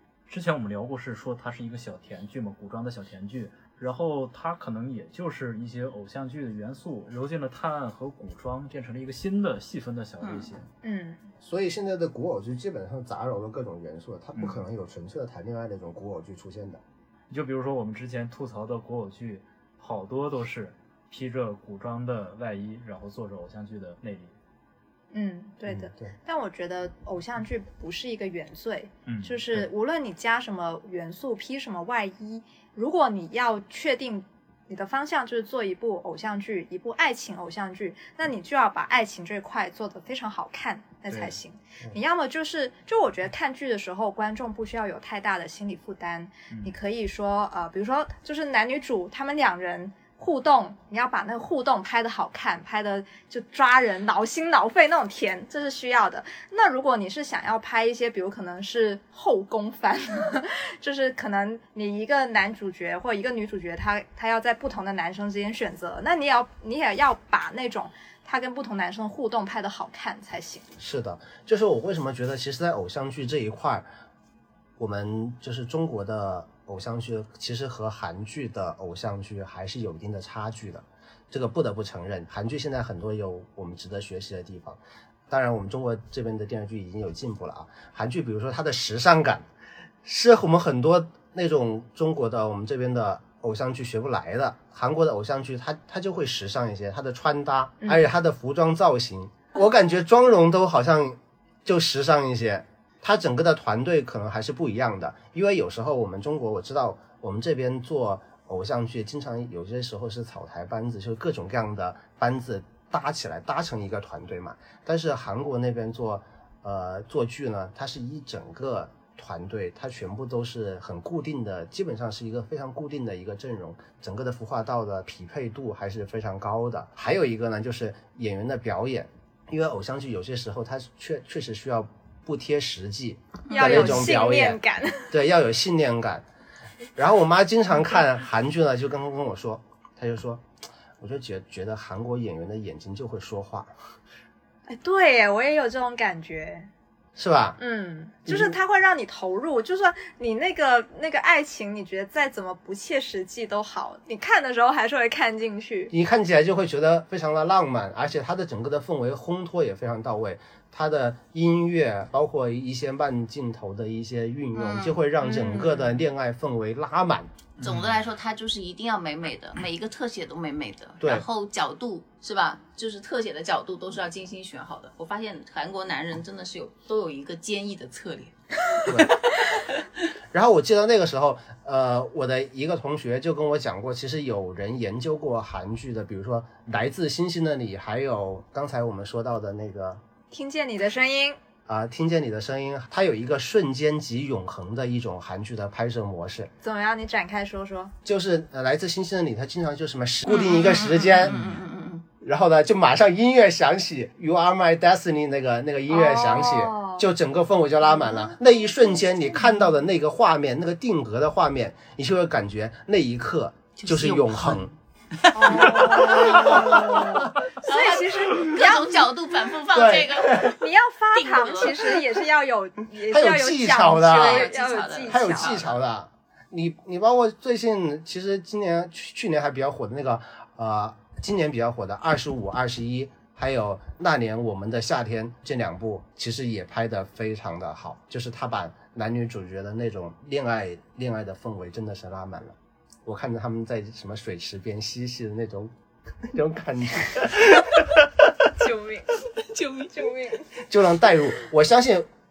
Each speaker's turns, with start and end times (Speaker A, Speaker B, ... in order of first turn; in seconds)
Speaker A: 0.3-10.7, 17.3-24.3, 29.1-29.7, 167.6-168.0
Speaker B: 10.2-10.6, 133.5-134.0, 164.5-165.1, 167.6-179.8, 200.2-202.0, 208.0-208.3, 213.8-220.6, 221.1-222.0, 224.0-225.7, 249.4-250.1
Speaker C: 10.8-11.2, 25.1-70.7, 133.5-135.1, 144.7-146.7, 147.6-155.9, 165.2-165.9, 190.3-191.4, 196.6-197.9, 205.9-207.1, 215.3-219.1, 220.4-225.7, 248.6-250.5
Speaker D: 11.4-16.8, 25.7-26.1, 70.8-73.8, 74.8-89.5, 90.0-134.6, 135.1-136.2, 136.9-140.4, 141.0-143.7, 147.2-147.6, 148.2-148.6, 155.9-167.3, 171.0-171.2, 178.8-179.2, 180.3-190.0, 191.7-196.5, 198.0-201.5, 202.2-214.7, 215.5-217.2, 219.7-220.6, 223.1-224.5, 225.1-245.7, 246.2-248.3, 250.6-252.1